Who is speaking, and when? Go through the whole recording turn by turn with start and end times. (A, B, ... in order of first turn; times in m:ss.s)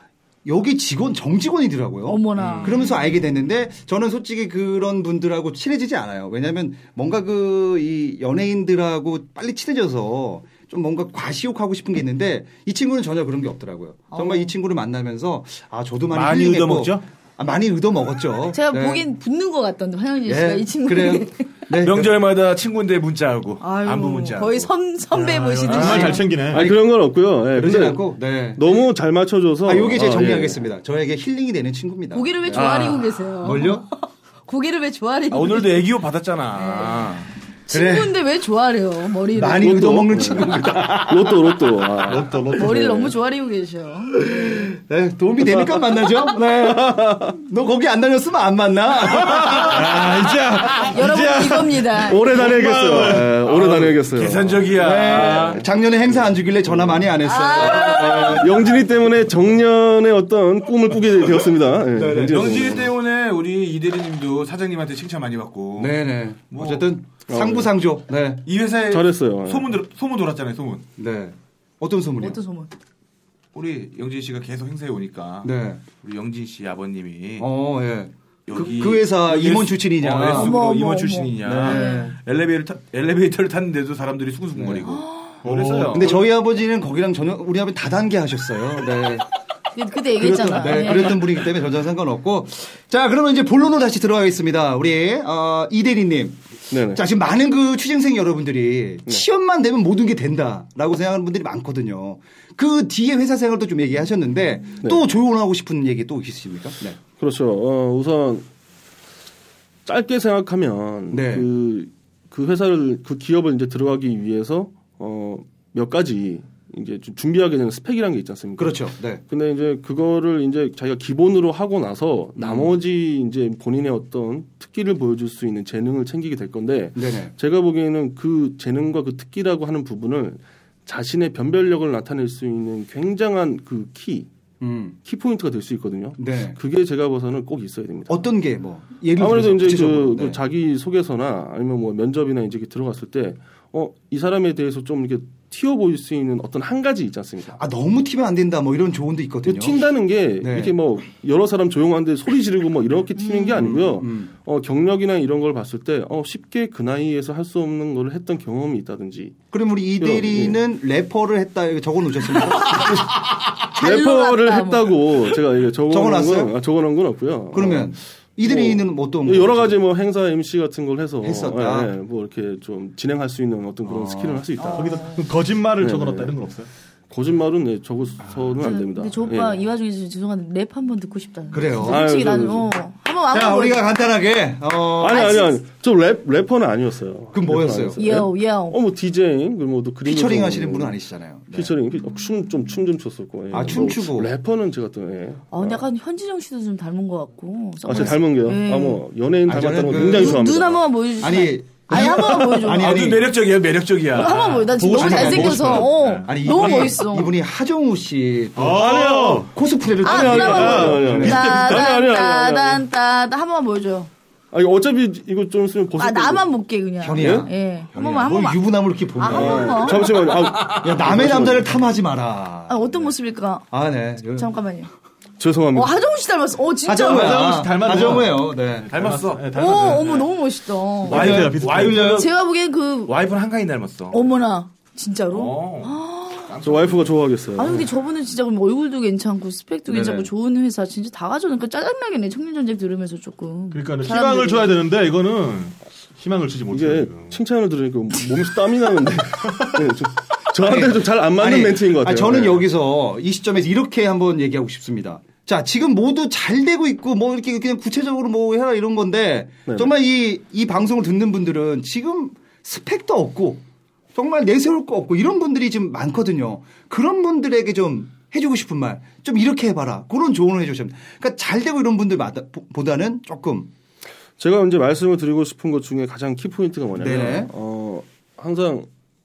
0:00.4-0:19.0 A
0:02.1-0:02.9 B
0:14.1-0:14.5 B
0:16.1-0:17.0 C
0:18.5-0:21.5 B
0:20.3-0:22.1 A
0:21.8-0:24.7 C
0:23.6-0:26.2 B
0:25.1-0:26.7 D
0:25.7-0:26.2 C
0:26.5-0:28.0 E
0:26.5-0:26.8 A
0:27.5-0:28.8 A
0:28.6-0:30.6 E
0:29.6-0:32.7 A
0:32.1-0:35.9 B
0:32.5-0:33.3 E
0:33.4-0:33.9 A
0:35.3-0:37.3 C
0:36.6-0:37.1 B
0:37.7-0:40.0 B
0:37.7-0:38.1 A
0:39.3-0:41.6 A
0:39.6-0:43.1 E
0:42.0-0:43.0 D
0:42.5-0:44.4 B
0:44.2-0:50.0 A
0:46.6-0:47.3 E
0:49.4-0:53.4 D
0:50.8-0:52.4 B
0:52.0-0:55.7 E
0:52.9-0:55.6 C
0:54.8-0:58.6 A
0:57.2-0:58.4 B
0:57.8-1:02.9 E
1:02.0-1:06.0 C
1:05.8-1:08.4 A
1:06.5-1:06.9 C
1:07.3-1:07.7 E
1:08.4-1:10.9 C
1:08.9-1:09.8 E
1:11.0-1:12.4 A
1:12.2-1:12.7 B
1:13.5-1:17.5 C
1:15.4-1:15.8 A
1:17.4-1:20.6 A
1:18.5-1:26.2 C
1:20.3-1:22.2 B
1:21.4-1:22.2 A
1:24.5-1:24.9 A
1:24.9-1:25.3 B
1:25.4-1:26.1 D
1:25.9-1:29.3 A
1:29.7-1:31.3 B
1:30.2-1:47.0 A
1:36.7-1:37.0 E
1:47.2-1:48.5 E
1:49.9-2:14.3 E
1:51.1-1:51.5 A
1:58.6-1:59.2 A
2:02.4-2:02.7 A
2:07.0-2:07.3 A
2:14.6-2:15.0 A
2:15.0-2:18.3 E
2:16.2-2:16.6 A
2:18.1-2:20.4 A
2:19.2-2:27.6 E
2:27.6-2:29.8 A
2:29.5-2:39.4 E
2:30.4-2:30.8 A
2:33.2-2:33.7 B
2:33.5-2:34.3 A
2:39.5-2:43.1 A
2:40.0-2:40.6 E
2:42.7-2:43.0 E
2:43.7-2:55.0 E
2:43.8-2:45.0 B
2:45.9-2:46.6 A
2:47.5-2:49.8 A
2:51.2-2:51.9 A
2:53.8-2:54.5 A
2:54.6-2:55.2 B
2:54.8-2:56.7 D
2:55.8-2:56.4 E
2:57.1-2:59.6 E
2:58.6-3:03.9 B
3:01.5-3:02.0 A
3:01.8-3:02.7 E
3:03.3-3:05.4 A
3:05.0-3:11.0 E
3:05.1-3:05.6 B
3:07.3-3:08.2 A
3:08.0-3:08.8 B
3:10.0-3:11.8 A
3:11.5-3:15.8 E
3:13.5-3:14.3 A
3:15.5-3:19.0 B
3:17.8-3:20.9 E
3:19.5-3:20.6 A
3:19.9-3:23.0 B
3:21.2-3:23.4 A
3:22.7-3:25.3 C
3:24.1-3:27.3 B
3:24.3-3:26.3 D
3:25.0-3:31.6 A
3:28.6-3:29.5 D
3:28.7-3:29.5 E
3:30.0-3:32.8 E
3:30.0-3:34.1 B
3:30.9-3:31.4 D
3:34.5-3:36.5 E
3:36.0-3:40.0 B
3:37.0-3:43.1 A
3:37.2-3:37.5 E
3:39.2-3:41.8 E
3:42.7-3:43.7 B
3:43.7-3:44.5 A
3:44.3-3:44.9 B
3:45.4-3:46.0 E
3:45.7-3:47.5 B
3:46.9-3:48.9 A
3:47.0-3:50.3 D
3:48.9-3:49.8 C
3:49.5-3:53.1 B
3:51.0-3:52.2 D
3:51.1-3:52.3 C
3:51.1-3:52.1 A
3:53.1-3:54.3 C
3:54.1-3:56.5 B
3:55.3-3:57.2 C
3:56.6-3:57.9 E
3:57.6-4:04.8 B
3:59.9-4:00.3 A
4:03.7-4:07.4 D
4:06.7-4:12.6 E
4:10.6-4:23.6 A
4:24.2-4:33.7 A
4:34.4-4:38.9 E
4:37.0-4:37.5 A